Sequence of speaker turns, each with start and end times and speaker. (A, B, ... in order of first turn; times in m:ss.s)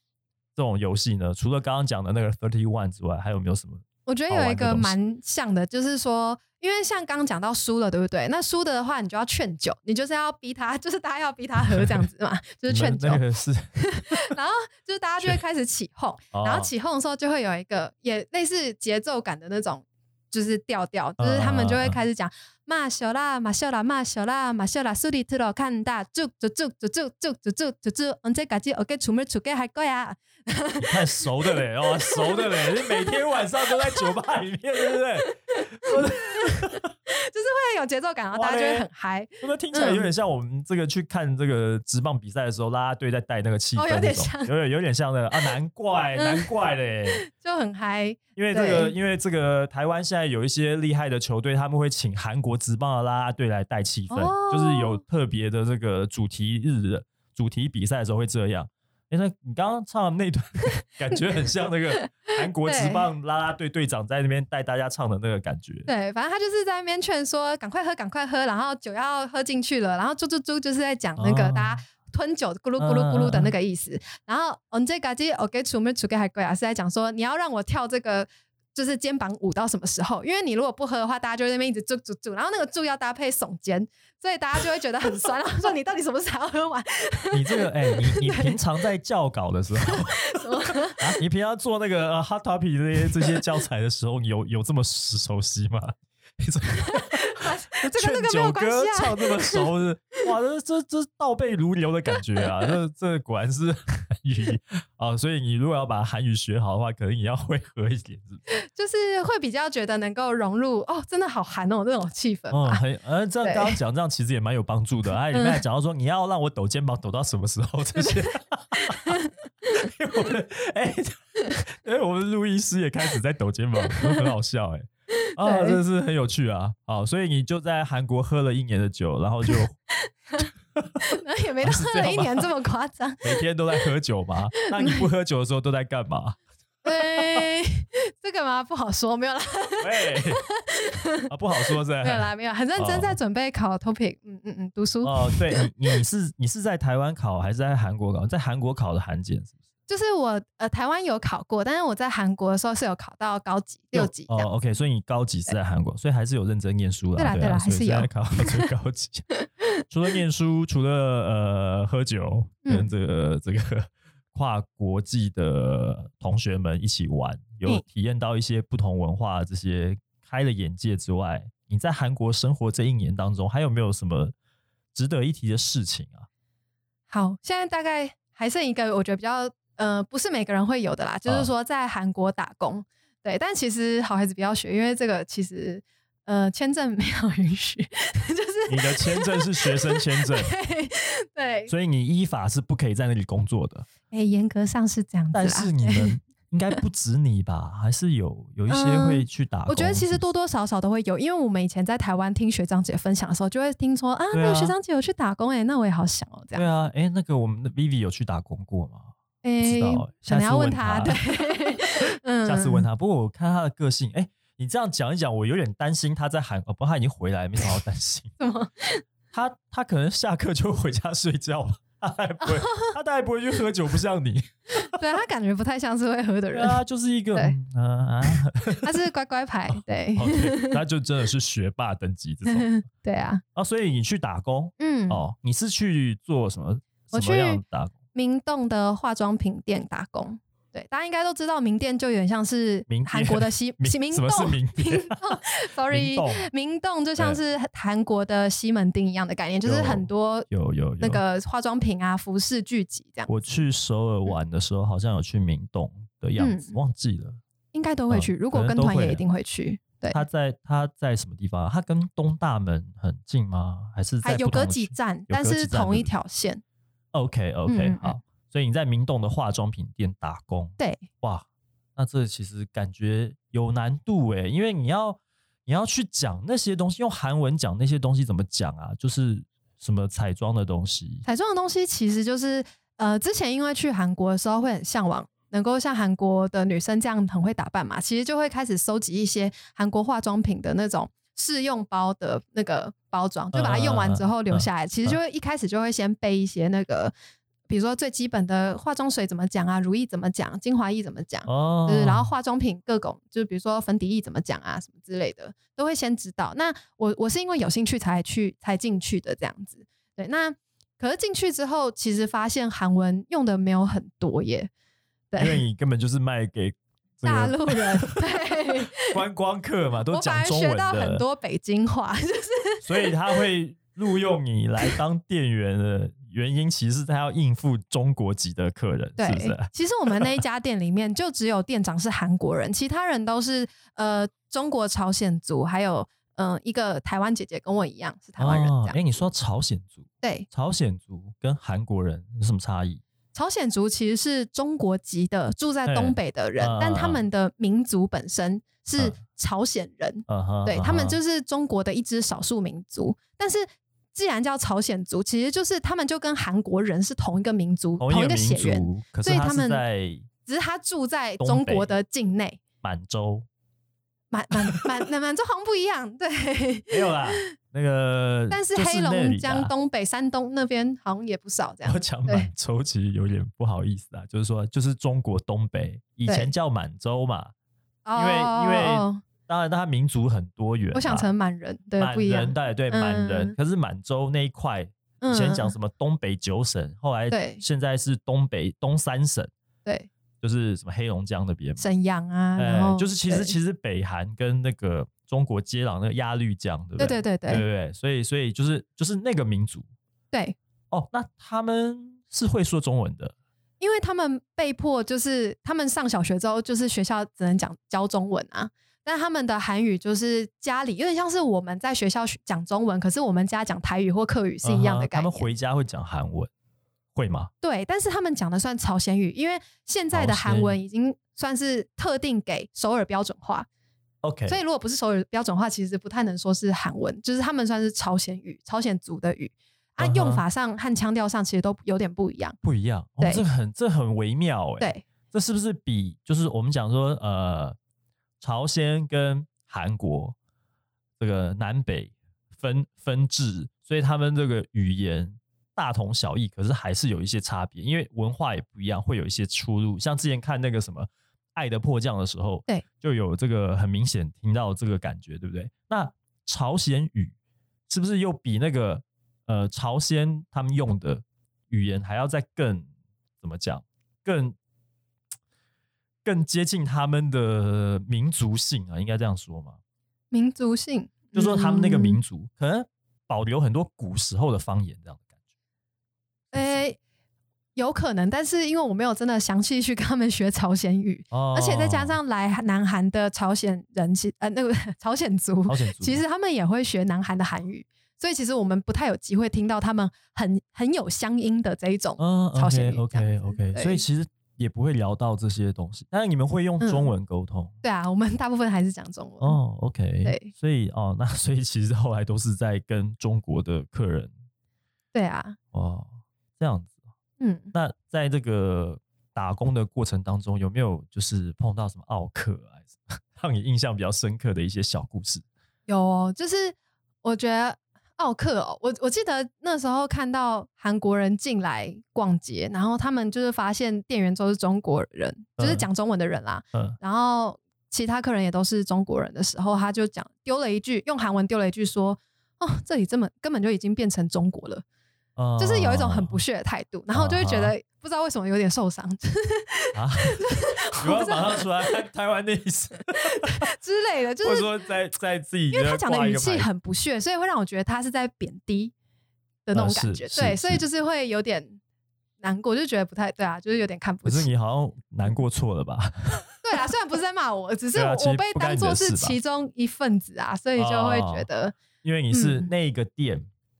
0:00.6-0:04.9 A
0:04.0-0:13.2 B
0:12.7-0:14.3 A
0:13.8-0:31.2 B
0:16.3-0:16.7 A
0:21.2-0:22.0 A
0:30.8-0:36.9 A
0:32.1-0:33.2 B
0:37.1-0:40.1 B
0:38.3-0:38.9 A
0:39.4-0:47.2 A
0:43.8-0:44.5 B
0:46.2-0:46.5 B
0:47.2-0:48.9 B
0:48.4-1:05.9 A
0:54.1-0:55.0 B
1:02.6-1:03.1 B
1:05.9-1:28.6 B
1:11.2-1:11.8 A
1:12.8-1:13.5 A
1:27.3-1:48.4 A
1:29.9-1:31.0 B
1:36.9-1:39.7 B
1:48.7-1:52.8 B
1:52.5-1:59.1 A
1:53.4-1:53.8 B
1:55.3-1:55.6 B
1:59.8-2:09.7 A
2:05.4-2:05.8 B
2:11.1-2:13.4 B
2:11.6-2:12.5 A
2:13.2-2:16.4 A
2:16.8-2:21.3 B
2:17.0-2:17.4 A
2:19.8-2:20.4 A
2:21.3-2:23.2 A
2:22.0-2:25.4 B
2:25.0-2:29.5 A
2:29.9-2:34.5 B
2:33.9-2:39.3 A
2:37.2-2:38.6 B
2:39.9-2:54.3 A
2:42.6-2:42.9 B
2:54.9-2:56.3 A
2:57.1-3:11.7 B
3:08.7-3:10.5 A
3:11.7-3:13.9 A
3:14.1-3:16.1 B
3:15.3-3:20.2 A
3:18.7-3:26.6 B
3:24.3-3:24.7 A
3:26.6-3:38.3 A
3:29.4-3:32.9 B
3:38.4-3:39.0 B
3:39.3-3:45.0 A
3:42.4-3:42.9 B
3:44.9-3:46.8 B
3:46.5-3:48.9 A
3:48.8-3:50.8 B
3:50.2-3:52.8 A
3:52.4-3:53.4 B
3:53.6-3:57.9 A
3:54.8-3:55.2 B
3:57.1-3:57.6 B
3:58.1-4:10.5 B
4:02.9-4:05.4 A
4:05.9-4:06.5 A
4:09.6-4:11.2 A
4:11.0-4:13.3 B
4:13.3-4:17.4 A
4:16.4-4:16.8 B
4:17.7-4:20.2 B
4:18.1-4:19.2 A
4:20.1-4:26.1 A
4:24.2-4:26.6 B
4:27.1-4:31.4 A
4:27.7-4:28.2 B
4:30.8-4:31.0 B
4:32.0-4:41.2 A
4:41.2-4:57.1 B
4:53.5-4:55.2 A
4:57.7-5:14.7 B
5:01.4-5:02.3 A
5:15.3-5:15.6 B
5:15.4-5:21.2 A
5:17.2-5:19.2 B
5:20.1-5:23.1 B
5:22.8-5:30.4 A
5:29.2-5:39.0 B
5:38.4-5:43.0 A
5:40.2-5:40.5 B
5:43.3-5:59.8 B
5:45.9-5:47.2 A
5:50.3-5:51.2 A
5:58.0-6:00.3 A
6:00.4-6:02.6 B
6:01.4-6:01.9 A
6:02.8-6:03.5 A
6:04.3-6:07.4 B
6:06.9-6:09.7 A
6:08.5-6:12.5 B
6:11.8-6:17.5 A
6:16.3-6:16.5 B
6:18.0-6:19.2 B
6:18.2-6:21.3 A
6:20.9-6:23.6 B
6:22.0-6:29.5 A
6:25.2-6:25.7 B
6:27.3-6:27.6 B
6:30.4-6:31.8 A
6:31.8-6:33.6 B
6:32.6-6:39.9 A
6:37.0-6:37.6 B
6:40.3-6:40.6 B
6:40.9-6:43.3 A
6:43.8-6:55.5 B
6:54.6-6:56.5 A
6:57.1-6:57.5 A
6:57.6-7:03.7 B
7:00.1-7:00.8 A
7:04.2-7:04.6 A
7:04.5-7:12.6 B
7:10.0-7:10.4 A
7:12.6-7:17.8 A
7:18.4-7:20.4 A
7:21.2-7:37.3 A
7:37.9-7:42.9 A
7:43.4-7:44.6 A
7:46.2-7:49.8 A
7:50.3-7:52.2 B
7:51.3-7:55.2 A
7:56.5-7:56.8 A
7:56.5-7:57.0 B
7:57.8-8:14.0 B
8:01.3-8:02.2 A
8:05.7-8:06.2 A
8:12.2-8:17.7 A
8:16.8-8:17.1 B
8:17.8-8:19.6 B
8:19.4-8:24.3 A
8:20.2-8:20.5 B
8:25.1-8:25.6 B
8:25.7-8:26.9 A
8:27.4-8:27.7 B
8:27.7-8:35.4 A
8:35.9-8:54.8 B
8:45.6-8:45.9 A
8:55.4-8:56.4 A
8:55.6-9:01.6 B
8:57.1-8:57.7 A
8:59.9-9:03.6 A
9:03.2-9:04.7 B
9:04.4-9:06.7 A
9:05.7-9:08.9 B
9:09.6-9:11.8 B
9:09.7-9:10.8 A
9:12.4-9:14.5 B
9:14.2-9:16.5 A
9:16.6-9:21.8 B
9:17.9-9:19.4 A
9:20.8-9:21.5 A
9:22.0-9:23.5 A
9:22.3-9:22.7 B